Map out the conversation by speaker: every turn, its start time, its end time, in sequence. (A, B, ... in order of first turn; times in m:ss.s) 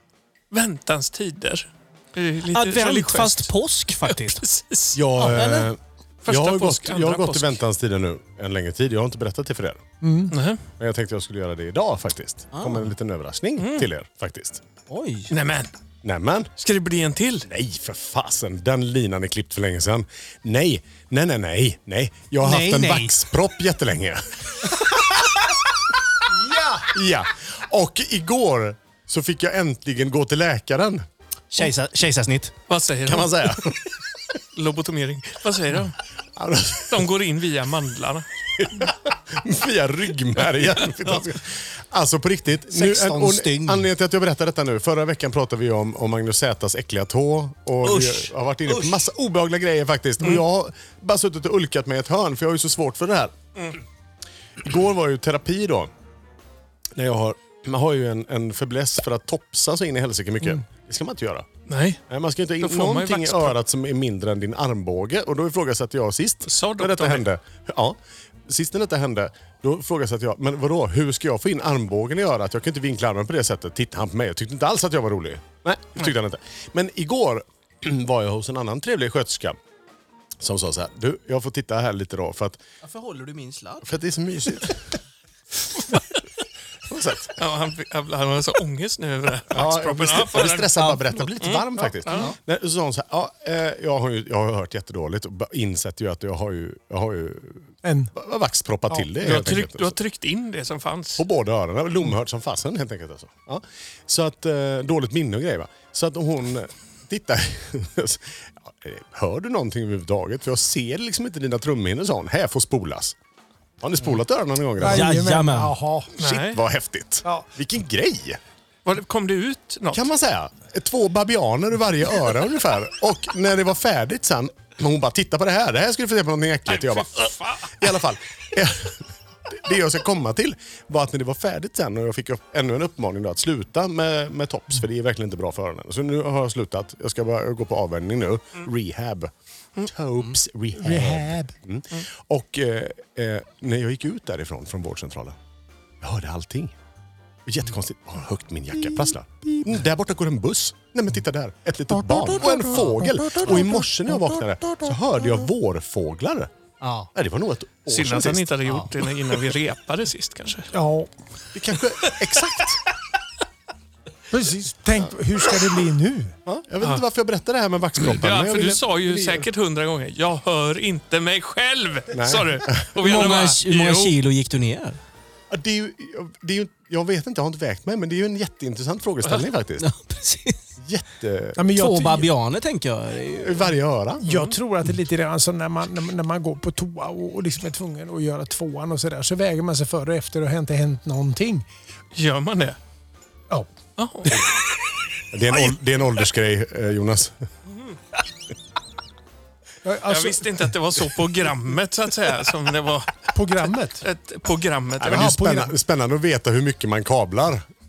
0:00.5-0:03.5 A
0:02.5-0:04.4 B
0:04.0-0:05.0 A
0:04.9-0:09.8 C
0:05.2-0:05.7 B
0:06.2-0:07.6 A
0:10.0-0:10.3 D
0:10.3-0:10.6 A
0:10.8-0:14.6 C
0:12.5-0:12.9 B
0:13.6-0:13.9 A
0:14.9-0:15.3 B
0:15.3-0:15.7 A
0:16.0-0:16.5 C
0:16.6-0:17.5 A
0:17.4-0:25.2 C
0:22.4-0:23.2 B
0:26.3-0:26.9 D
0:26.8-0:31.0 C
0:31.5-0:32.5 B
0:32.7-0:33.7 A
0:33.0-0:33.8 C
0:34.5-0:36.0 A
0:36.4-0:37.1 C
0:36.9-0:38.3 A
0:38.6-0:53.4 C
0:42.7-0:43.9 B
0:47.8-0:49.0 B
0:54.6-0:55.9 C
0:56.9-1:01.5 C
1:01.7-1:02.0 A
1:02.1-1:19.6 C
1:02.6-1:03.6 A
1:06.4-1:07.2 A
1:20.4-1:22.6 C
1:22.8-1:23.9 B
1:23.8-1:24.8 C
1:26.9-1:27.4 C
1:27.4-1:32.3 A
1:29.5-1:40.0 C
1:37.8-1:38.1 D
1:39.2-1:41.2 A
1:41.2-1:53.2 C
1:53.8-1:55.1 C
1:54.8-1:56.1 D
1:54.8-1:55.7 B
1:56.2-1:56.6 A
1:56.2-1:58.4 C
1:58.8-2:00.0 A
1:59.9-2:25.4 C
2:06.7-2:08.0 A
2:20.7-2:21.5 D
2:26.0-2:26.8 C
2:27.4-2:36.5 C
2:28.8-2:29.7 D
2:32.1-2:33.8 D
2:36.8-2:37.1 B
2:37.1-2:38.5 C
2:37.9-2:40.7 A
2:40.7-2:41.1 D
2:41.5-2:42.8 C
2:44.3-2:46.3 D
2:46.4-2:49.5 C
2:48.0-2:54.1 A
2:52.1-2:52.9 C
2:53.0-2:55.0 B
2:55.5-2:59.8 C
2:59.8-3:00.6 B
3:00.8-3:01.6 C
3:01.6-3:02.3 D
3:01.7-3:03.6 B
3:03.4-3:04.2 C
3:04.2-3:11.6 D
3:04.3-3:04.5 A
3:12.1-3:12.8 A
3:14.0-3:14.5 A
3:15.3-3:17.4 C
3:17.7-3:18.0 A
3:19.8-3:20.6 D
3:20.1-3:25.4 A
3:23.3-3:24.0 D
3:25.0-3:27.6 C
3:25.0-3:25.7 D